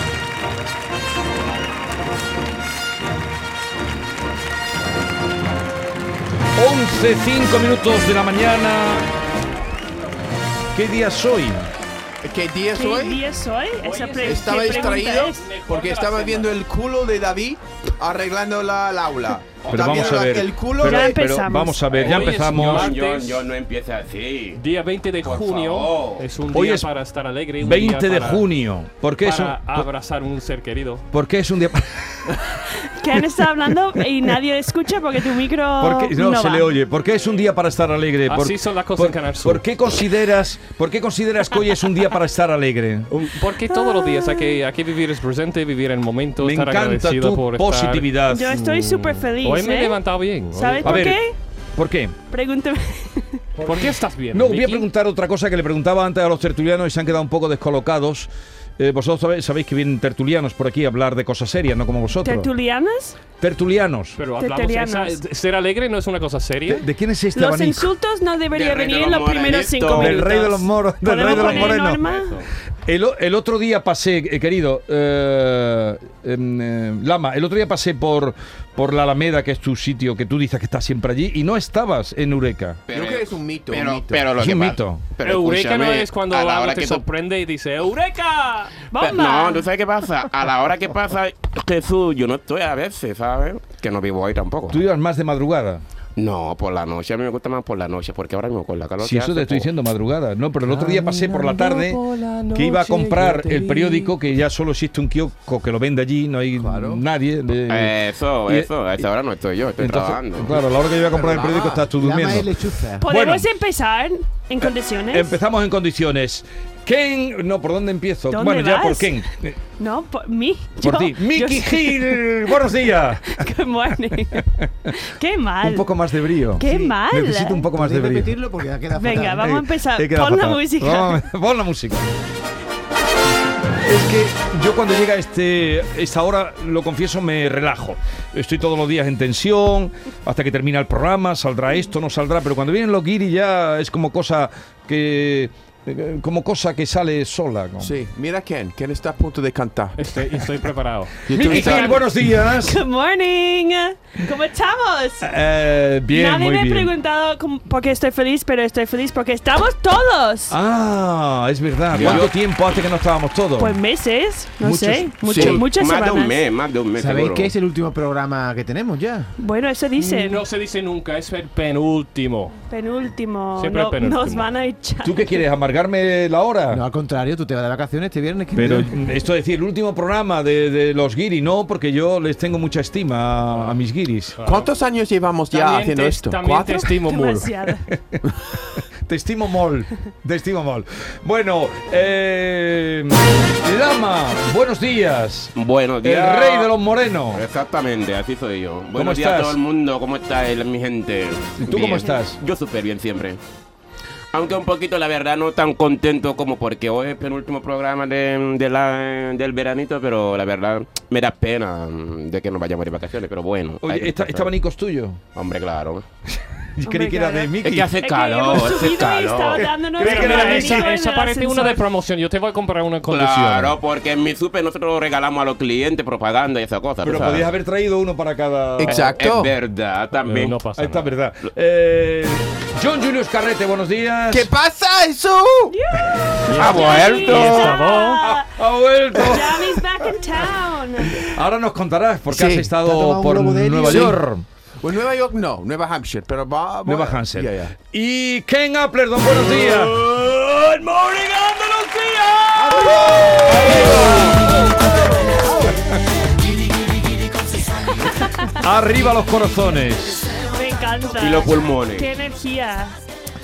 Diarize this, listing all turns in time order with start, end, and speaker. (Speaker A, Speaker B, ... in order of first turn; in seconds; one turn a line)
Speaker A: 6.6-9.1
Speaker A: 10.7-11.7
Speaker B: 12.2-13.2
Speaker C: 12.8-15.5
Speaker D: 13.8-16.6
Speaker B: 14.2-21.2
Speaker A: 19.6-22.9
Speaker C: 20.8-21.9
Speaker D: 21.9-23.4
Speaker E: 22.0-24.6
Speaker D: 24.6-28.5
Speaker E: 25.2-26.2
Speaker A: 26.5-26.9
Speaker A: 27.6-29.9
Speaker D: 29.2-31.1
Speaker A: 31.1-32.6
Speaker C: 32.9-36.7
Speaker A: 33.1-34.4
Speaker A: 35.8-43.1
Speaker D: 38.3-39.6
Speaker D: 43.1-51.1
Speaker C: 43.7-44.6
Speaker A: 46.4-48.6
Speaker C: 48.3-51.4
Speaker A: 50.8-51.2
Speaker A: 51.8-52.1
Speaker C: 52.3-53.5
Speaker D: 53.6-54.9
Speaker A: 54.3-62.5
Speaker C: 62.2-63.2
Speaker A: 63.3-64.2
Speaker D: 64.2-66.9
Speaker C: 64.4-65.2
Speaker A: 66.7-67.9
Speaker C: 67.3-72.4
Speaker E: 68.5-70.2
Speaker A: 69.9-72.0
Speaker D: 71.2-72.5
Speaker A: 72.8-82.8
Speaker E: 82.9-87.0
Speaker B: 82.9-84.3
Speaker A: 84.4-85.0
Speaker D: 85.2-88.7
Speaker C: 88.4-89.7
Speaker E: 89.0-94.8
Speaker A: 94.7-95.8
Speaker E: 96.2-99.7
Speaker A: 99.0-102.0
Speaker D: 100.7-104.2
Speaker A: 102.5-108.7
Speaker B: 106.6-107.0
Speaker E: 107.7-110.6
Speaker A: 109.8-113.5
Speaker B: 111.1-111.9
Speaker F: 111.5-113.1
Speaker C: 113.0-115.4
Speaker A: 114.6-119.6
Speaker C: 118.3-119.2
Speaker C: 119.8-122.6
Speaker A: 120.8-123.5
Speaker C: 123.3-127.7
Speaker A: 124.2-125.0
Speaker A: 125.6-128.3
Speaker F: 127.7-129.5
Speaker C: 129.0-131.3
Speaker A: 129.2-132.1
Speaker A: 133.8-148.0
Speaker B: 147.8-150.0
Speaker D: 150.0-152.0
Speaker B: 151.3-152.1
Speaker A: 151.3-152.8
Speaker C: 152.5-155.3
Speaker A: 155.2-156.9
Speaker C: 156.1-160.6
Speaker A: 160.5-163.8
Speaker E: 161.9-162.3
Speaker B: 161.9-162.3
Speaker C: 163.6-166.4
Speaker A: 164.6-165.6
Speaker B: 165.2-165.6
Speaker E: 165.4-167.5
Speaker F: 166.9-169.3
Speaker C: 169.4-170.4
Speaker D: 170.0-172.6
Speaker C: 172.7-175.5
Speaker D: 173.6-174.5
Speaker A: 175.0-176.8
Speaker F: 176.7-179.1
Speaker A: 178.6-184.4
Speaker D: 184.4-184.7
Speaker B: 184.4-186.9
Speaker D: 185.5-187.5
Speaker C: 187.0-187.9
Speaker A: 187.9-188.2
Speaker A: 188.8-197.4
Speaker E: 195.6-196.7
Speaker E: 197.3-203.4
Speaker A: 198.9-199.6
Speaker A: 201.6-202.4
Speaker E: 204.3-214.5
Speaker A: 213.8-215.2
Speaker E: 215.3-216.1
Speaker A: 216.3-218.0
Speaker C: 216.9-221.8
Speaker E: 217.6-219.7
Speaker A: 219.5-220.9
Speaker D: 220.0-223.8
Speaker E: 223.1-227.5
Speaker A: 227.0-229.2
Speaker B: 228.8-229.5
Speaker E: 228.9-230.6
Speaker D: 230.3-231.1
Speaker A: 230.8-234.5
Speaker B: 234.3-235.8
Speaker C: 235.7-238.5
Speaker D: 236.5-238.2
Speaker E: 236.5-237.8
Speaker A: 238.2-239.8
Speaker B: 239.2-239.4
Speaker C: 239.2-241.2
Speaker A: 241.2-244.4
Speaker B: 242.3-242.7
Speaker F: 242.8-244.2
Speaker B: 243.9-244.2
Speaker B: 244.8-247.8
Speaker A: 246.9-250.4
Speaker D: 249.7-252.8
Speaker B: 252.6-254.3
Speaker A: 252.7-254.5
Speaker B: 255.3-255.7
Speaker A: 255.7-256.0
Speaker C: 258.1-258.6
Speaker A: 258.6-260.4
Speaker C: 260.4-263.0
Speaker E: 261.2-262.1